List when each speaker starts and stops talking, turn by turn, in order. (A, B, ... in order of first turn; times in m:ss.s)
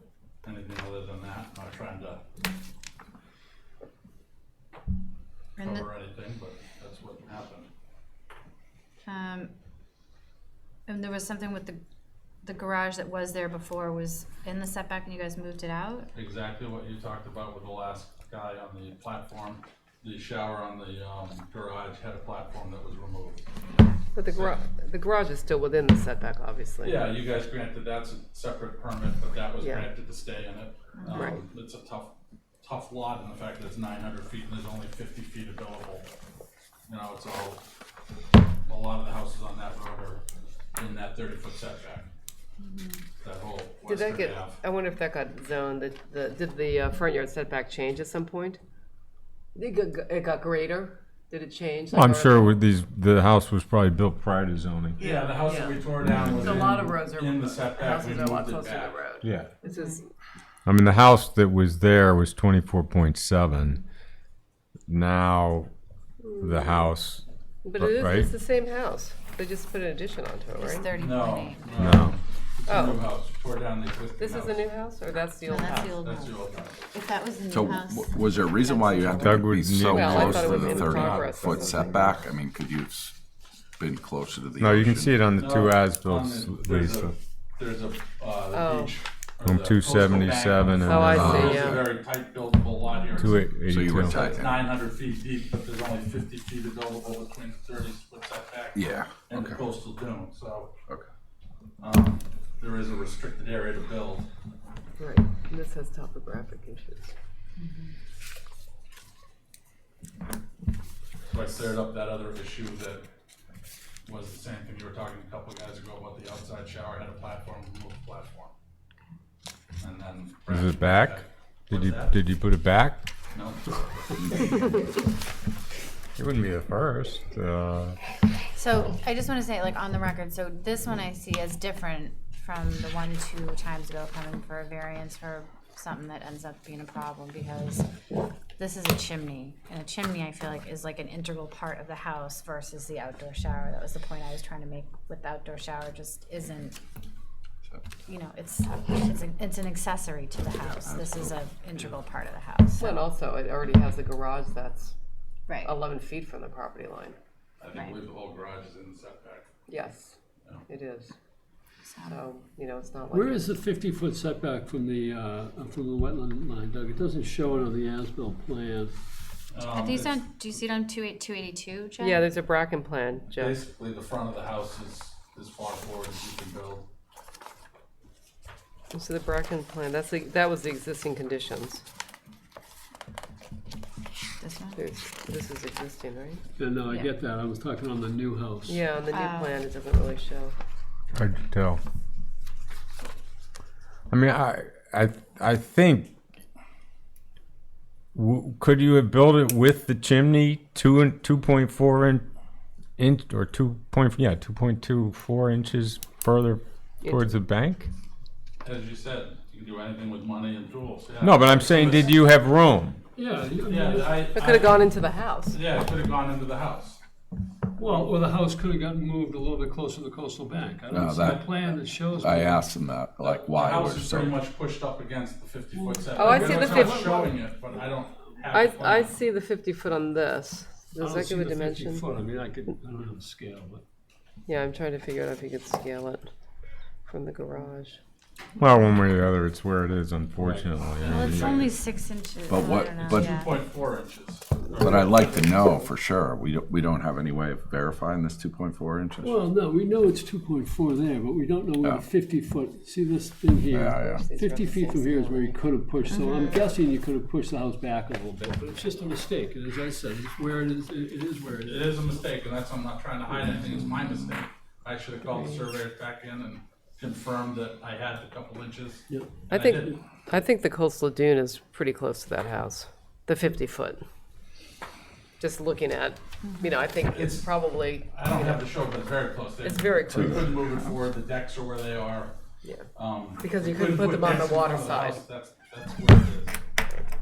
0:00.4-0:02.2 A
0:05.6-0:05.9 B
0:05.6-0:07.7 A
0:09.0-0:09.5 B
0:10.9-0:11.8 B
0:12.4-0:16.1 B
0:16.2-0:23.5 A
0:24.2-0:27.2 C
0:24.3-0:24.6 A
0:26.8-0:36.1 A
0:29.6-0:29.9 C
0:31.0-0:31.4 B
0:31.1-0:31.4 C
0:36.9-0:37.6 A
0:38.6-0:40.2 A
0:40.8-0:42.1 A
0:42.6-0:43.0 B
0:43.2-0:44.6 A
0:43.9-0:48.6 C
0:49.6-0:52.6 C
0:51.9-0:55.0 D
0:55.0-1:00.1 C
0:55.0-0:59.0 A
0:56.2-0:56.6 D
0:59.2-0:59.5 D
0:59.7-1:00.0 B
1:00.7-1:03.8 D
1:04.9-1:05.7 D
1:06.2-1:06.9 C
1:06.4-1:07.2 D
1:07.6-1:10.9 C
1:07.8-1:08.3 D
1:10.6-1:12.1 B
1:11.0-1:14.8 A
1:11.8-1:12.2 D
1:12.7-1:13.1 C
1:14.2-1:16.0 C
1:15.4-1:19.4 B
1:16.0-1:16.9 A
1:17.5-1:23.2 E
1:19.2-1:21.6 D
1:19.8-1:22.2 C
1:23.8-1:25.2 E
1:24.6-1:27.1 D
1:25.4-1:33.4 A
1:28.5-1:28.9 C
1:29.4-1:31.8 D
1:30.8-1:31.9 C
1:31.1-1:31.8 E
1:33.2-1:34.1 D
1:33.7-1:34.7 E
1:34.0-1:40.7 A
1:38.8-1:39.6 E
1:41.8-1:44.3 A
1:45.0-1:47.1 C
1:47.6-1:47.9 B
1:51.3-1:53.1 A
1:54.1-1:58.5 A
1:59.8-2:02.2 A
2:00.5-2:03.0 D
2:03.3-2:04.8 A
2:06.2-2:08.0 D
2:08.6-2:17.9 B
2:18.6-2:26.8 B
2:28.1-2:33.1 B
2:30.9-2:31.3 E
2:32.8-2:34.9 C
2:35.5-2:35.7 B
2:35.6-2:37.2 C
2:37.6-2:39.5 A
2:39.7-2:40.2 C
2:40.7-2:41.2 C
2:41.8-2:42.2 B
2:42.1-2:43.6 C
2:43.2-2:48.9 F
2:49.5-2:50.2 A
2:49.7-2:52.3 B
2:52.0-2:53.6 C
2:53.4-2:56.9 A
2:58.9-3:01.8 C
3:04.4-3:04.8 B
3:04.8-3:06.4 C
3:06.6-3:08.8 F
3:06.9-3:07.2 B
3:08.6-3:10.5 C
3:09.1-3:09.6 B
3:11.1-3:11.8 D
3:14.1-3:16.2 D
3:18.1-3:22.3 D
3:23.0-3:27.9 D
3:28.6-3:32.2 A
3:31.2-3:33.0 D
3:33.2-3:34.1 F
3:33.7-3:35.0 A
3:34.3-3:35.6 C
3:35.5-3:37.0 A
3:37.8-3:42.6 F
3:40.9-3:44.4 E
3:43.2-3:49.2 A
3:46.1-3:47.4 C
3:46.2-3:47.2 F
3:48.5-3:52.0 C
3:51.0-3:53.8 F
3:54.5-3:56.3 C
3:57.0-3:58.0 C
3:58.6-4:01.8 D
4:00.4-4:00.7 F
4:01.0-4:03.6 B
4:01.0-4:01.6 A
4:02.5-4:03.3 E
4:03.1-4:05.6 A
4:04.8-4:09.5 E
4:09.3-4:21.9 F
4:13.7-4:14.2 E
4:14.1-4:15.6 C
4:16.1-4:16.7 B
4:21.7-4:30.0 A
4:29.1-4:29.4 F
4:29.5-4:34.0 C
4:35.4-4:38.6 C
4:36.4-4:36.8 B
4:37.1-4:42.4 A
4:39.6-4:40.5 C
4:42.6-4:42.9 C
4:42.9-4:46.6 A
4:43.4-4:45.2 C